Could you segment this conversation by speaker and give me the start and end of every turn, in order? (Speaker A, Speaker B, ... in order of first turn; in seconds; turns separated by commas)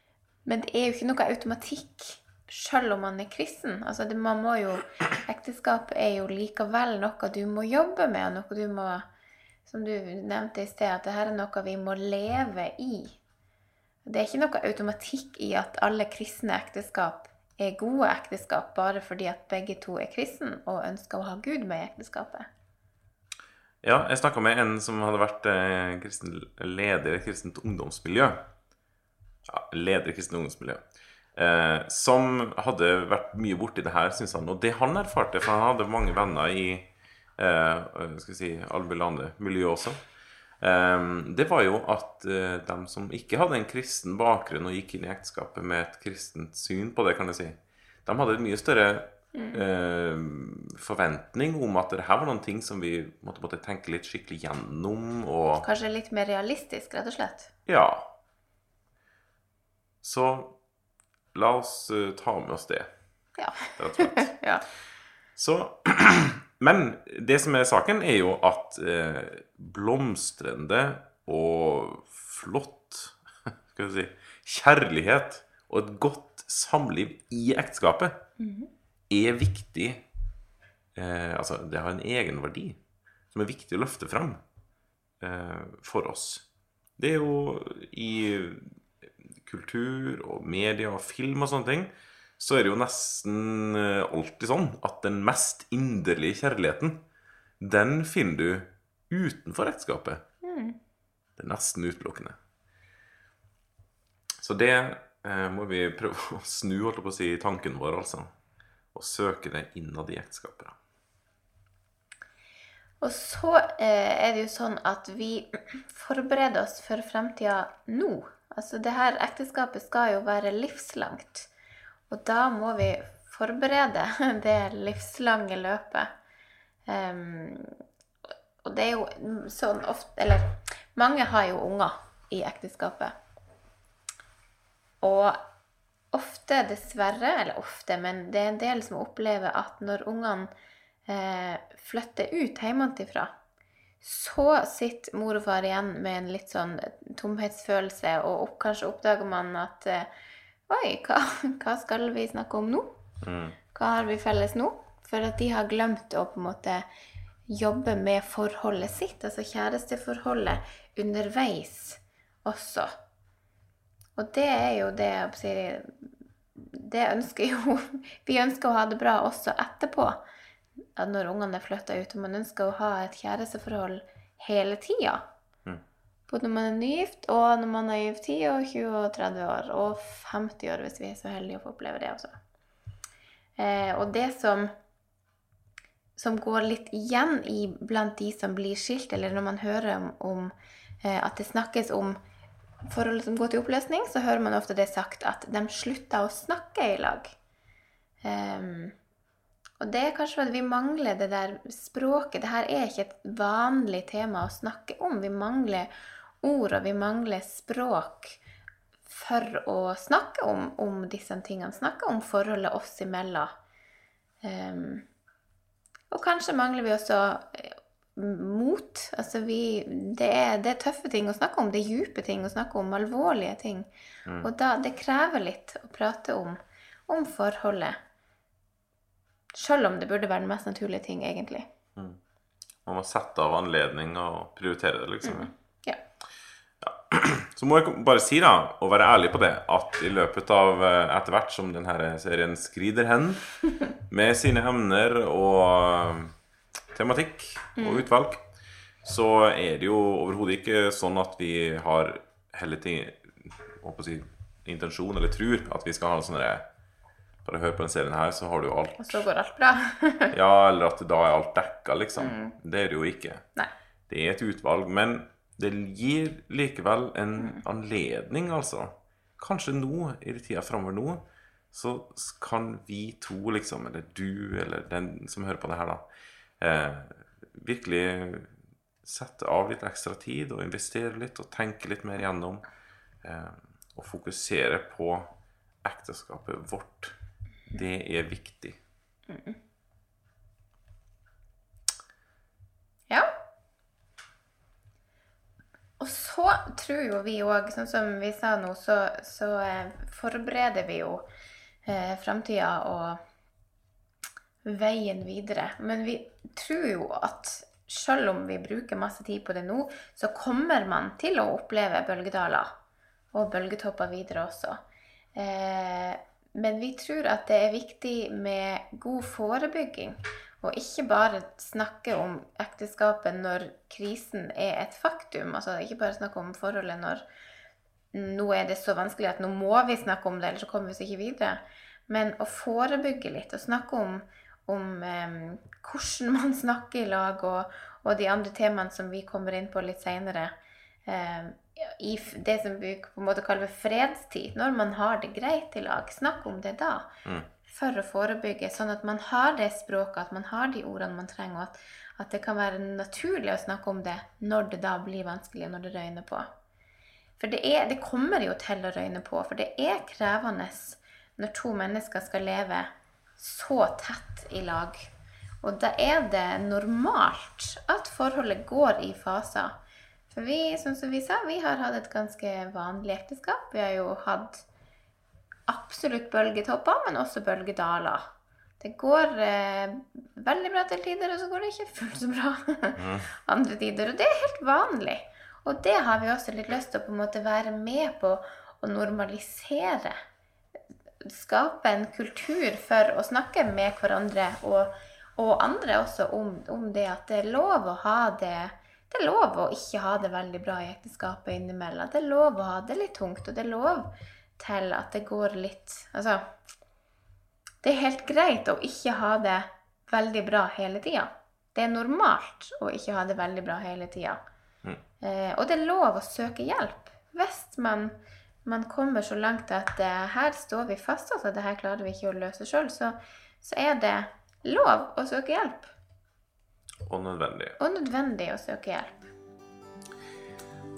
Speaker A: 0.5-9.1, Speaker A: 9.7-13.2, Speaker A: 14.1-22.5, Speaker B: 23.8-28.5, Speaker B: 29.5-30.8, Speaker B: 31.4-40.0, Speaker B: 40.6-55.7, Speaker A: 49.3-49.6, Speaker A: 55.6-57.5, Speaker B: 57.7-58.1, Speaker B: 60.0-60.6, Speaker B: 61.3-62.9, Speaker A: 63.4-64.6, Speaker B: 63.8-64.3, Speaker B: 65.4-73.2, Speaker B: 73.7-78.2, Speaker A: 78.4-78.7, Speaker B: 79.1-80.0, Speaker B: 81.0-82.8, Speaker B: 83.3-84.4, Speaker B: 85.2-86.5, Speaker B: 87.0-97.0, Speaker B: 97.6-100.2, Speaker A: 100.4-100.8, Speaker B: 101.4-102.4, Speaker B: 104.4-108.3, Speaker B: 108.9-110.8, Speaker A: 113.0-121.5, Speaker A: 122.1-126.1, Speaker A: 126.9-127.8, Speaker A: 128.6-133.1, Speaker A: 135.0-135.4, Speaker A: 136.1-140.5, Speaker A: 141.1-143.3, Speaker A: 144.0-150.1, Speaker A: 150.7-152.9, Speaker B: 153.2-153.6, Speaker A: 153.7-156.9, Speaker A: 157.5-162.9, Speaker A: 164.2-170.2, Speaker A: 171.0-175.3, Speaker A: 176.3-182.4, Speaker A: 183.6-184.7, Speaker A: 186.2-192.2, Speaker A: 192.9-197.3, Speaker A: 198.2-199.0, Speaker A: 199.8-205.9, Speaker A: 206.4-208.4, Speaker A: 209.1-213.5, Speaker A: 214.4-215.1, Speaker A: 216.1-223.9, Speaker B: 224.3-224.5, Speaker A: 224.4-228.0, Speaker A: 229.5-231.7, Speaker B: 232.8-235.5, Speaker A: 235.2-236.0, Speaker B: 236.8-246.3, Speaker B: 246.9-248.4, Speaker A: 247.8-248.1, Speaker B: 249.0-256.6, Speaker B: 257.4-259.3, Speaker A: 259.0-260.3, Speaker B: 260.3-263.4, Speaker A: 262.2-262.6, Speaker B: 264.1-276.0, Speaker B: 276.6-282.6, Speaker B: 283.2-285.3, Speaker B: 285.8-287.1, Speaker B: 287.7-288.8, Speaker A: 289.3-289.6, Speaker A: 296.0-301.3, Speaker A: 301.9-303.2, Speaker A: 304.6-312.7, Speaker A: 313.3-314.8, Speaker A: 315.3-327.2, Speaker A: 328.1-347.1, Speaker A: 347.7-356.5, Speaker A: 357.4-365.1, Speaker A: 365.6-369.8, Speaker A: 370.3-374.6, Speaker A: 375.7-378.3, Speaker A: 378.8-390.2, Speaker B: 383.0-383.3, Speaker A: 391.2-406.5, Speaker A: 407.8-414.4, Speaker A: 415.2-425.9, Speaker B: 427.1-427.8, Speaker A: 427.8-429.3